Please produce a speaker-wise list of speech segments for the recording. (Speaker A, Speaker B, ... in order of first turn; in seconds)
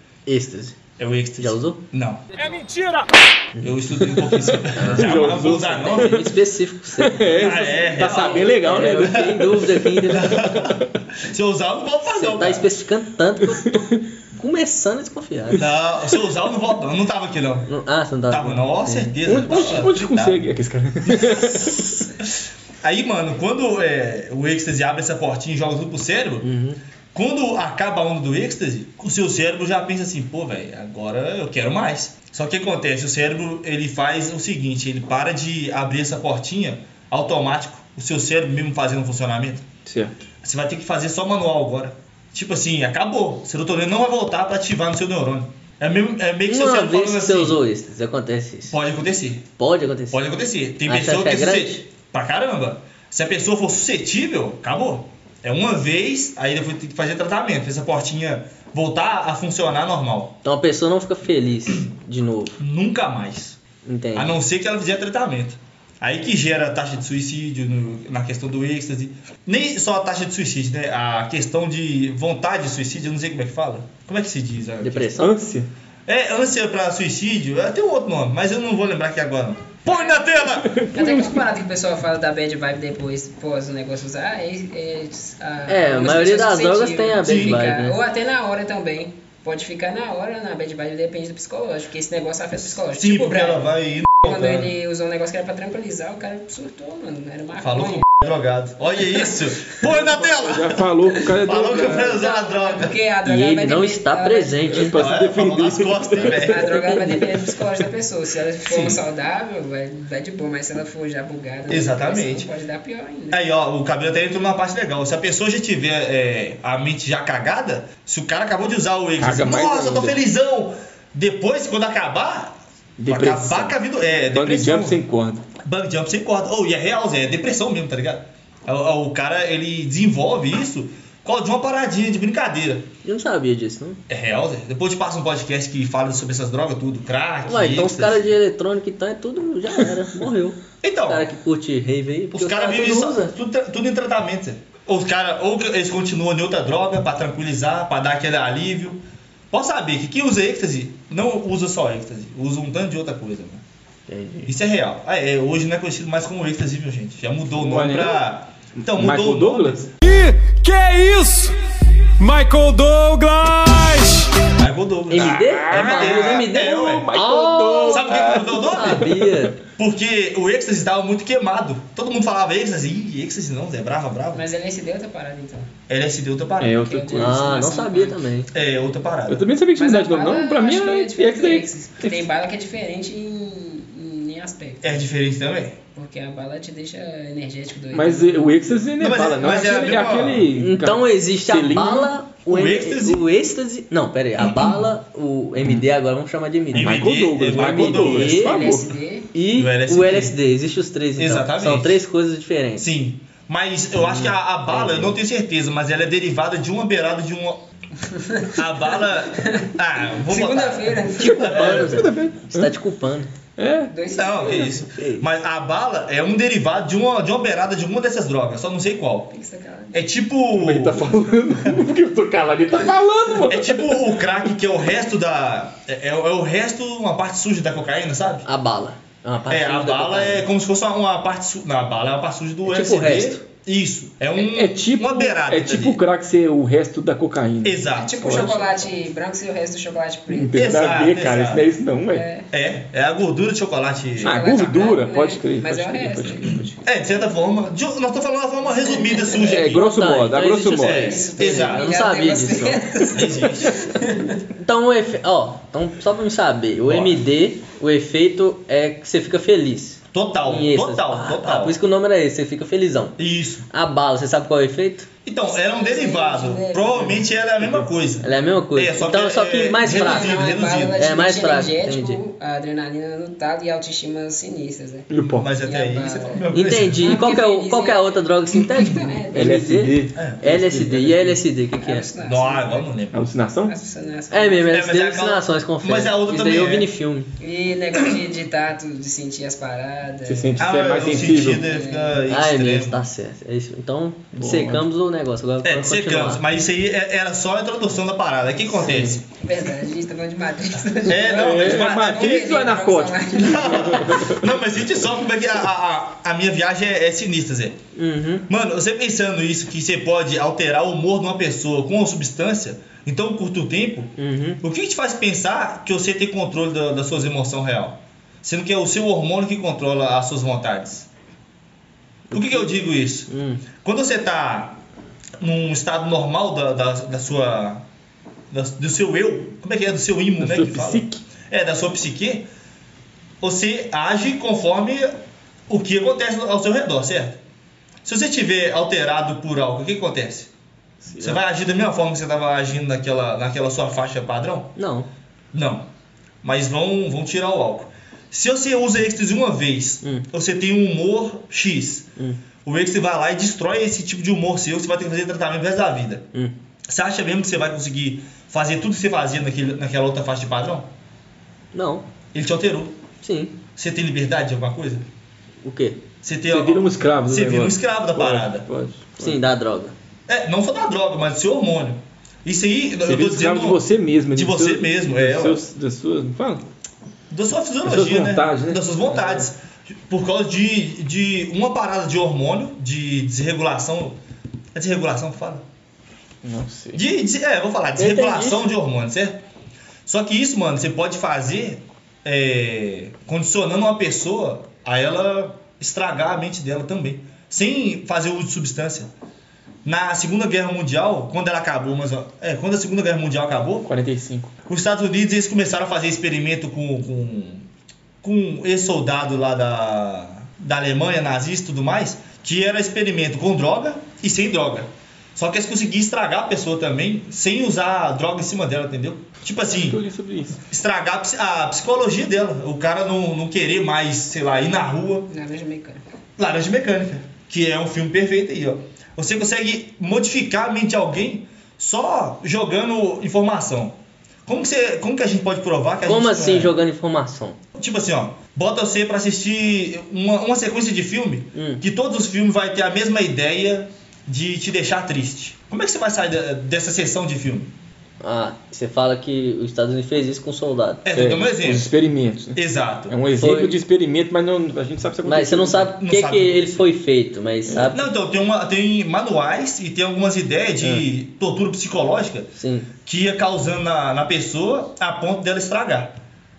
Speaker A: 0.2-0.8, 1.4-1.8, 4.8-10.5, 12.1-15.6, 17.7-19.1, 26.4-26.8, 46.5-48.8, 49.6-50.2, 50.8-51.8, 60.4-62.6, 63.9-64.3, 74.8-75.4, 85.7-88.0, 103.2-105.0, 133.0-134.0, 137.4-143.3, 154.1-154.5, 165.1-169.6, 177.1-178.5, 190.6-198.8, 199.3-202.8, 204.0-205.2, 211.4-213.3, 215.0-215.2, 228.4-230.4, 232.7-233.4, 249.7-252.8, 254.6-263.2, 263.7-265.1, 268.2-272.2, 276.5-282.1, 284.3-287.3, 292.3-296.4, 298.9-299.2, 307.9-308.4, 314.2-314.6, 322.3-322.7, 323.3-323.6, 344.8-345.1, 361.7-362.1, 363.2-363.5, 365.6-366.0, 369.2-369.9, 388.0-388.6, 436.1-437.6, 441.5-441.8, 448.2-451.0, 453.4-453.8, 455.2-458.1, 462.6-462.9
Speaker B: 1.0-2.2, 3.6-6.3, 7.3-12.7, 15.5-17.7, 18.3-20.5, 21.0-26.5, 27.1-39.6, 40.4-47.6, 48.7-49.5, 50.1-60.3, 62.6-63.6, 64.1-75.2, 76.0-80.8, 87.2-87.6, 92.6-94.7, 97.6-103.0, 104.9-106.8, 111.7-112.5, 113.3-125.0, 125.6-132.9, 134.1-138.2, 140.8-141.3, 142.3-153.6, 154.4-159.9, 164.6-167.1, 167.9-169.1, 169.8-174.4, 175.9-176.8, 178.5-179.4, 184.8-185.8, 189.0-190.5, 192.5-193.2, 194.4-194.9, 196.7-198.4, 199.5-200.3, 201.2-202.0, 202.8-207.6, 208.5-212.0, 214.1-219.3, 219.9-221.8, 223.4-228.4, 229.5-236.0, 237.6-238.5, 240.5-241.7, 242.5-244.9, 246.8-249.9, 250.8-251.9, 253.1-253.7, 256.9-257.2, 260.1-261.8, 263.2-263.7, 265.2-271.1, 275.2-277.2, 280.1-280.4, 282.2-283.2, 284.7-286.9, 290.6-293.0, 295.6-299.2, 301.0-302.6, 303.3-307.8, 308.5-321.1, 322.3-323.3, 323.8-324.8, 325.4-327.8, 328.5-332.5, 333.4-335.1, 335.7-337.4, 338.0-340.5, 341.2-344.8, 345.5-345.9, 346.4-352.1, 352.6-356.2, 356.9-360.9, 362.3-362.9, 363.8-365.1, 366.2-368.6, 370.3-375.6, 377.3-384.2, 384.7-385.6, 386.9-389.4, 390.1-399.1, 399.8-403.9, 404.7-407.6, 408.2-420.0, 420.7-425.3, 426.4-433.9, 434.5-436.7, 437.7-447.7, 451.0-451.9, 452.5-453.1, 456.0-456.6, 457.9-462.5, 463.1-466.1
Speaker C: 4.6-6.3, 7.0-9.7, 13.6-14.0, 19.2-21.9, 39.9-40.2, 75.2-75.7, 80.6-81.4, 99.8-102.2, 104.7-107.2, 108.7-109.0, 119.2-120.2, 123.0-123.8, 124.3-125.4, 157.6-158.2, 158.8-159.9, 165.1-169.4, 176.6-177.6, 179.3-182.2, 187.9-192.1, 196.8-198.9, 211.2-212.7, 213.6-213.9, 220.5-224.2, 234.4-238.8, 240.3-242.2, 244.2-246.7, 249.4-251.1, 275.1-275.5, 279.3-281.4, 283.1-283.7, 290.2-291.6, 294.3-294.9, 301.1-304.4, 330.4-331.2, 341.0-341.4, 366.5-369.4, 373.0-376.6, 377.8-379.4, 386.4-387.0, 403.9-404.5, 419.6-420.6, 451.1-455.9
Speaker D: 79.9-80.3, 80.9-93.7, 94.2-98.0, 102.0-104.7, 106.2-113.4, 174.3-175.7, 176.8-178.2, 179.8-185.1, 185.9-188.8, 198.2-199.3, 208.0-211.8, 213.9-214.8, 219.3-220.0, 237.9-240.6, 242.1-242.4, 244.2-246.7, 248.8-249.4, 251.0-254.4, 265.5-267.2, 269.8-275.1, 275.6-276.4, 277.0-279.6, 281.8-282.9, 283.6-284.8, 287.4-292.2, 299.4-304.2, 425.3-426.0
Speaker E: 160.0-161.5, 162.2-164.3